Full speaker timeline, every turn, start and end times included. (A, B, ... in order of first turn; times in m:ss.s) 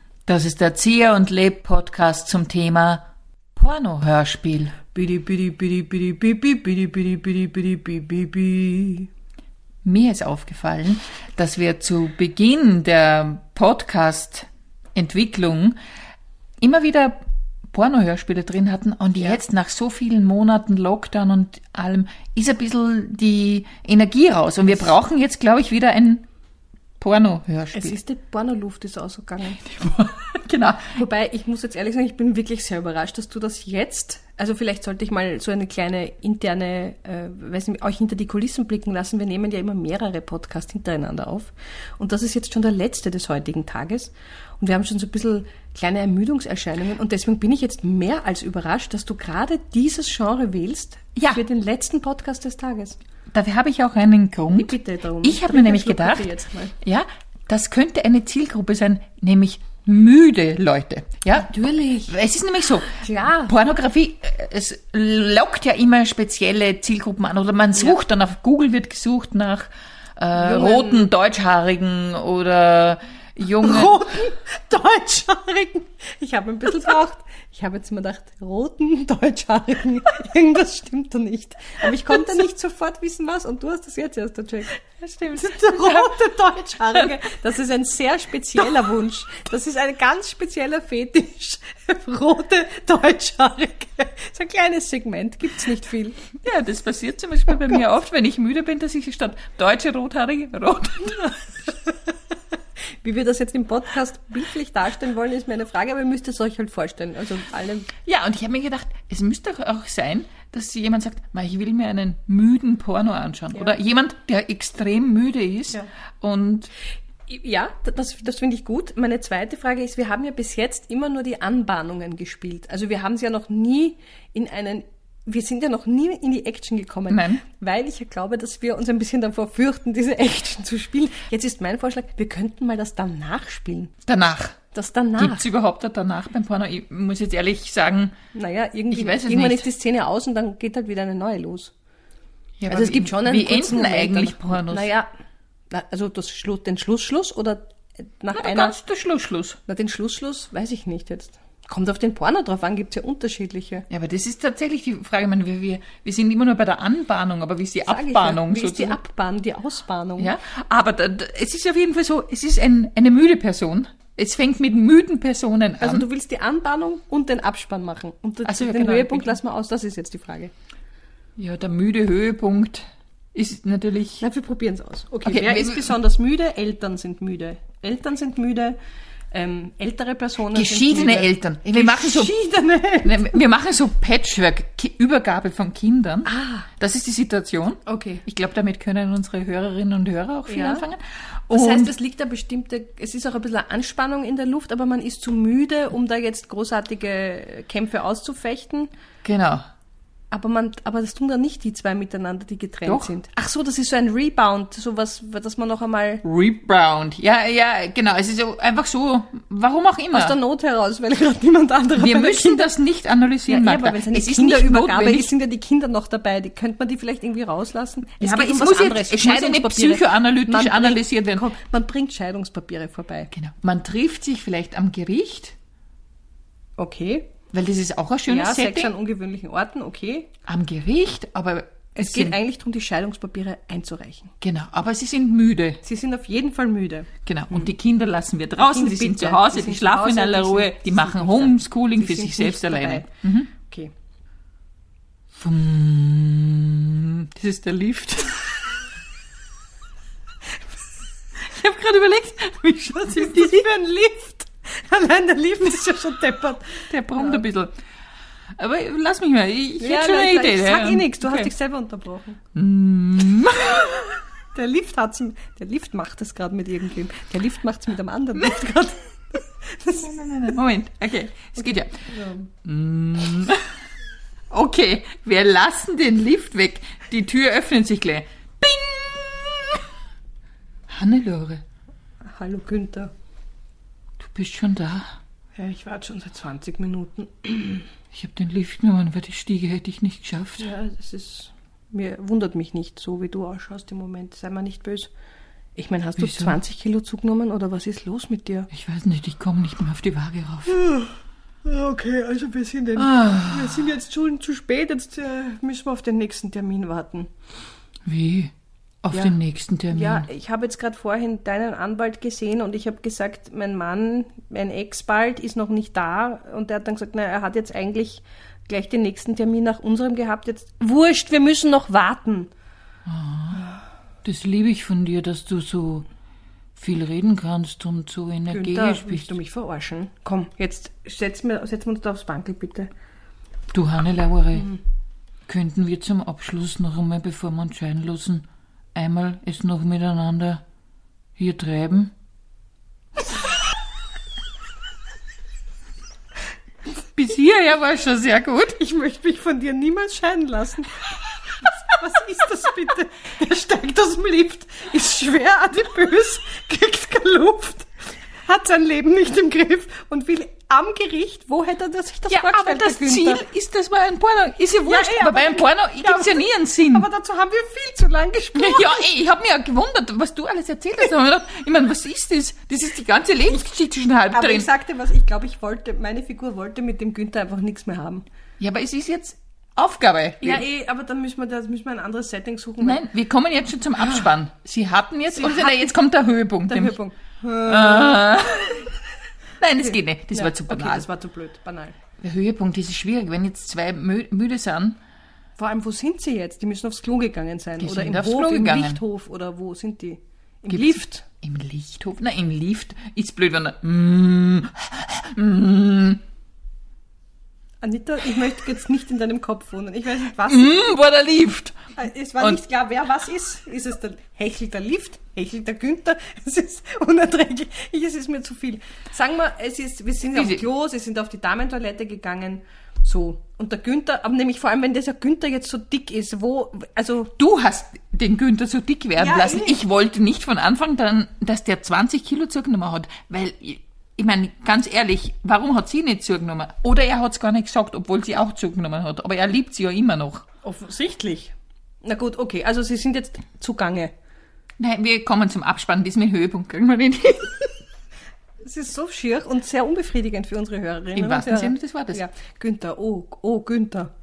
0:00.3-0:04.8 A
0:04.9-0:09.1 B
0:09.8-0:15.8 A
0:16.6-0:17.2 A
0:17.7-0:26.2 A
0:27.0-0:28.0 A
0:27.7-0:29.6 B
0:29.6-0:31.0 A
0:30.9-0:53.0 B
0:51.2-0:51.4 A
0:53.3-0:56.3 A
0:54.6-0:56.8 B
0:56.8-1:14.0 A
1:03.0-1:03.6 B
1:10.4-1:11.1 B
1:13.6-1:36.2 B
1:25.7-1:26.0 A
1:36.4-1:41.4 A
1:43.0-1:47.9 B
1:48.0-1:56.7 A
1:57.3-2:13.9 B
2:07.1-2:07.4 A
2:14.1-2:14.6 A
2:14.7-2:15.4 B
2:15.2-2:18.1 A
2:18.3-2:21.7 B
2:18.9-2:19.7 A
2:22.6-2:24.9 A
2:22.7-2:25.1 B
2:25.7-2:27.6 B
2:28.2-2:28.8 B
2:28.3-2:29.6 A
2:29.7-2:33.9 B
2:33.9-2:39.0 A
2:37.9-2:40.4 B
2:40.2-2:46.1 A
2:45.8-2:50.5 B
2:48.4-2:49.4 A
2:51.4-2:54.2 A
2:54.2-2:58.8 B
2:55.2-2:56.0 A
2:59.3-3:03.4 B
3:00.5-3:02.3 A
3:03.0-3:11.9 A
3:06.3-3:06.7 B
3:07.9-3:08.2 B
3:10.5-3:10.8 B
3:11.5-3:18.9 B
3:19.2-3:19.6 A
3:20.3-3:26.2 B
3:22.9-3:23.1 A
3:26.2-3:30.4 A
3:30.1-3:32.7 B
3:32.0-3:35.3 A
3:33.5-3:43.3 B
3:38.2-3:41.4 A
3:43.3-3:45.6 A
3:46.8-3:47.3 B
3:47.5-3:48.9 A
3:48.3-3:50.3 B
3:50.5-3:52.4 A
3:52.0-3:54.3 B
3:54.4-3:55.8 A
3:55.8-3:57.7 B
3:57.2-4:03.5 A
3:58.6-4:03.9 B
4:05.4-4:08.6 A
4:11.4-4:13.7 A
4:13.0-4:17.4 B
4:16.9-4:17.7 A
4:18.6-4:21.5 A
4:19.8-4:22.4 B
4:22.6-4:24.1 A
4:24.5-4:30.1 B
4:29.9-4:32.0 A
4:31.6-4:32.5 B
4:32.6-4:33.6 A
4:34.5-4:39.8 A
4:40.9-4:41.6 A
4:42.3-4:43.1 B
4:44.2-4:45.1 A
4:45.6-4:47.9 B
4:48.1-4:50.7 A
4:50.6-4:55.1 B
4:55.8-4:58.7 B
4:56.2-4:56.6 A
4:58.7-5:00.8 A
5:00.7-5:07.3 B
5:03.0-5:03.9 A
5:08.0-5:10.3 A
5:09.9-5:22.5 B
5:23.1-5:23.7 A
5:24.2-5:26.1 A
5:26.8-5:29.3 A
5:28.5-5:32.9 B
5:33.7-5:34.8 A
5:35.5-5:40.6 A
5:41.4-5:42.1 A
5:47.2-5:48.8 A
5:48.8-5:51.0 B
5:51.6-5:57.9 B
5:58.4-6:03.4 B
6:02.3-6:07.1 A
6:04.8-6:09.1 B
6:08.6-6:14.7 A
6:14.3-6:18.2 B
6:18.6-6:20.6 A
6:20.4-6:23.0 B
6:22.8-6:27.0 A
6:25.3-6:25.9 B
6:26.7-6:28.6 B
6:27.6-6:28.9 A
6:29.6-6:31.1 A
6:29.8-6:32.0 B
6:32.2-6:35.0 A
6:35.6-6:41.2 B
6:37.8-6:39.0 A
6:40.7-6:46.2 A
6:47.8-6:50.9 B
6:50.5-6:51.8 A
6:52.0-7:07.3 B
7:00.3-7:00.6 A
7:07.4-7:20.4 A
7:09.2-7:09.8 B
7:20.6-7:21.5 B
7:22.0-7:24.1 B
7:24.8-7:27.7 A
7:28.6-7:34.1 B
7:31.2-7:32.2 A